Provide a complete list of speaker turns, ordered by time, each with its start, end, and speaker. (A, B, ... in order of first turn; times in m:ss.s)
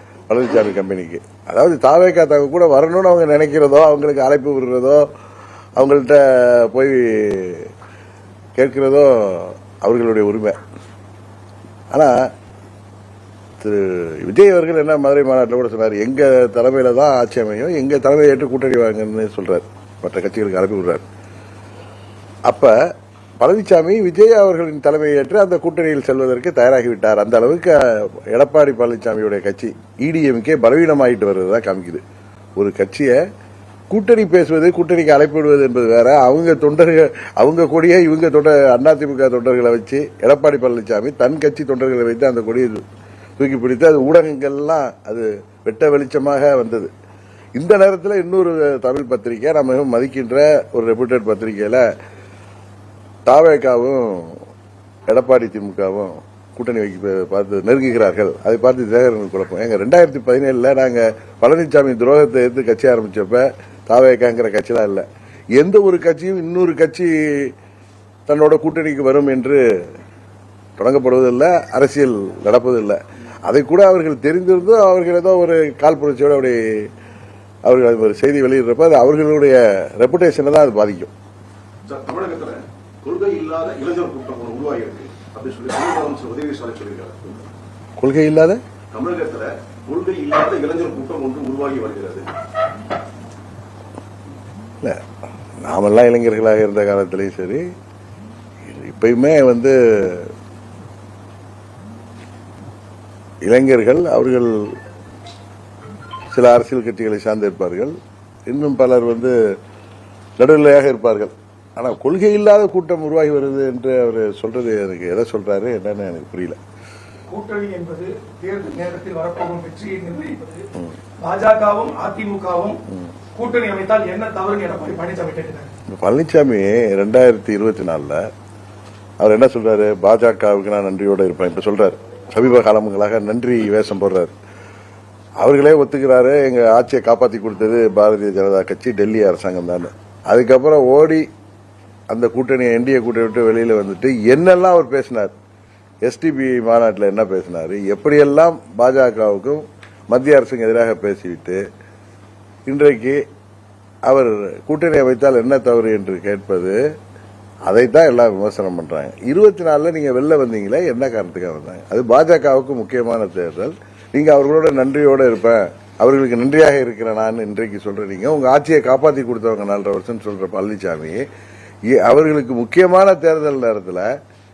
0:00.3-0:05.1 A
0:05.8-0:07.7 A
0:08.6-0:10.6 A
0:11.9-0:12.3 A
0:13.6-0:21.0 A
0:22.5-0:22.8 A
0:23.4-0:32.0 A
0:32.6-0:33.2 A
0:33.9-0:42.8 A
0:43.4-0:46.9 A
0:47.6-0:51.8 A
0:53.3-0:54.4 A
0:55.1-1:05.0 A
1:05.6-1:07.5 A
1:08.3-1:09.6 A
1:10.8-1:16.9 A
1:17.6-1:21.1 A
1:21.8-1:27.4 B
1:28.0-1:28.6 A
1:28.9-1:32.3 B
1:35.6-1:37.6 A
1:38.6-1:40.3 A
1:43.4-1:44.7 A
1:46.3-1:47.9 A
1:48.5-1:49.4 A
1:50.4-1:56.6 A
1:57.3-2:00.7 C
2:01.2-2:02.8 C
2:03.4-2:05.7 C
2:05.9-2:08.2 A
2:09.2-2:14.3 A
2:15.4-2:21.2 A
2:22.1-2:25.3 A
2:26.0-2:31.6 A
2:32.7-2:33.2 A
2:34.1-2:36.8 A
2:37.7-2:51.2 A
2:51.9-2:54.1 A